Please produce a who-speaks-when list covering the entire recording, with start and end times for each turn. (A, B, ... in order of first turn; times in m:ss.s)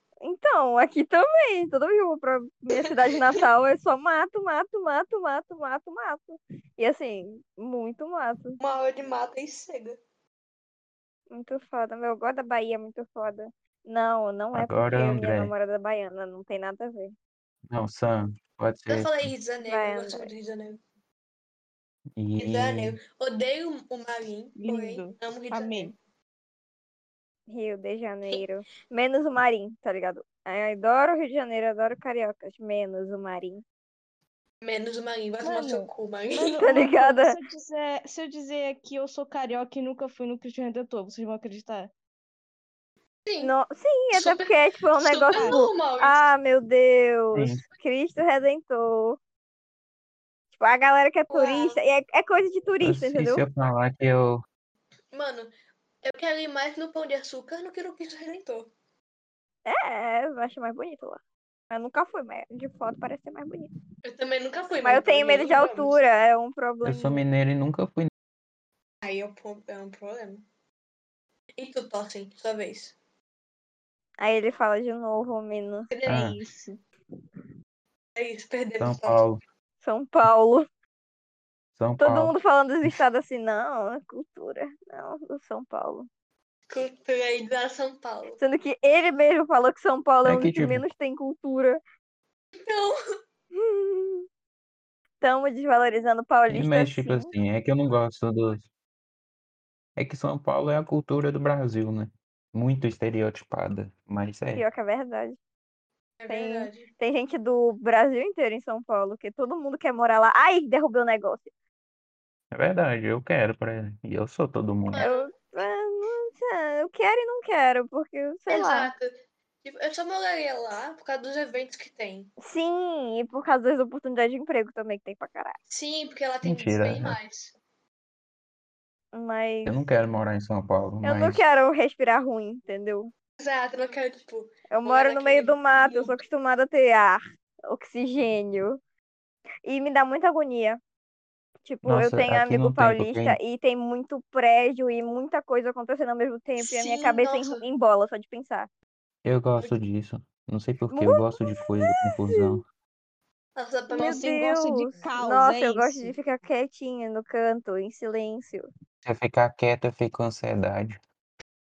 0:00.2-0:08.6 A
0:08.6-0:10.0 B
0:11.3-0:17.1 A
0:14.5-0:15.5 C
0:17.7-0:19.3 C
0:18.9-0:20.8 B
0:19.6-0:20.3 A
0:22.2-0:23.0 C
0:22.4-0:26.0 B
0:24.6-0:25.9 D
0:27.5-0:33.6 A
0:34.6-0:36.7 B
0:35.4-0:41.9 D
0:36.6-0:37.4 A
0:43.3-0:43.5 B
0:43.4-0:49.2 A
0:44.1-0:46.3 B
0:45.4-0:45.6 D
0:47.3-0:47.6 C
0:50.5-0:53.4 A
0:51.3-0:51.8 B
0:52.8-0:54.4 C
0:55.1-0:55.5 B
0:56.0-0:58.7 B
0:59.7-1:03.7 A
1:04.0-1:06.0 B
1:04.8-1:07.2 A
1:06.8-1:08.1 C
1:09.0-1:10.4 B
1:11.6-1:13.0 B
1:14.2-1:15.9 A
1:15.9-1:16.4 B
1:16.1-1:16.4 C
1:16.1-1:16.8 D
1:18.2-1:19.2 B
1:18.8-1:19.4 C
1:19.8-1:20.7 A
1:21.8-1:23.0 C
1:22.0-1:26.1 A
1:26.7-1:28.4 B
1:28.4-1:31.8 A
1:30.2-1:30.8 C
1:32.6-1:33.0 B
1:33.6-1:34.3 A
1:35.2-1:37.3 A
1:36.5-1:38.7 C
1:40.0-1:44.6 C
1:44.6-1:45.4 A
1:46.2-1:46.9 B
1:46.3-1:51.5 A
1:52.5-1:55.0 C
1:54.9-1:55.3 B
1:55.0-1:58.9 A
1:58.5-2:02.3 B
2:02.4-2:05.6 A
2:05.7-2:07.5 B
2:06.4-2:07.2 C
2:09.1-2:09.8 A
2:09.6-2:11.4 C
2:11.0-2:13.1 A
2:13.4-2:16.2 B
2:14.7-2:18.8 A
2:19.6-2:20.8 A
2:21.6-2:28.7 A
2:21.8-2:23.4 C
2:26.6-2:27.6 B
2:29.2-2:32.6 C
2:30.9-2:32.6 A
2:33.6-2:34.3 B
2:33.9-2:38.7 A
2:34.0-2:36.2 D
2:39.0-2:41.0 C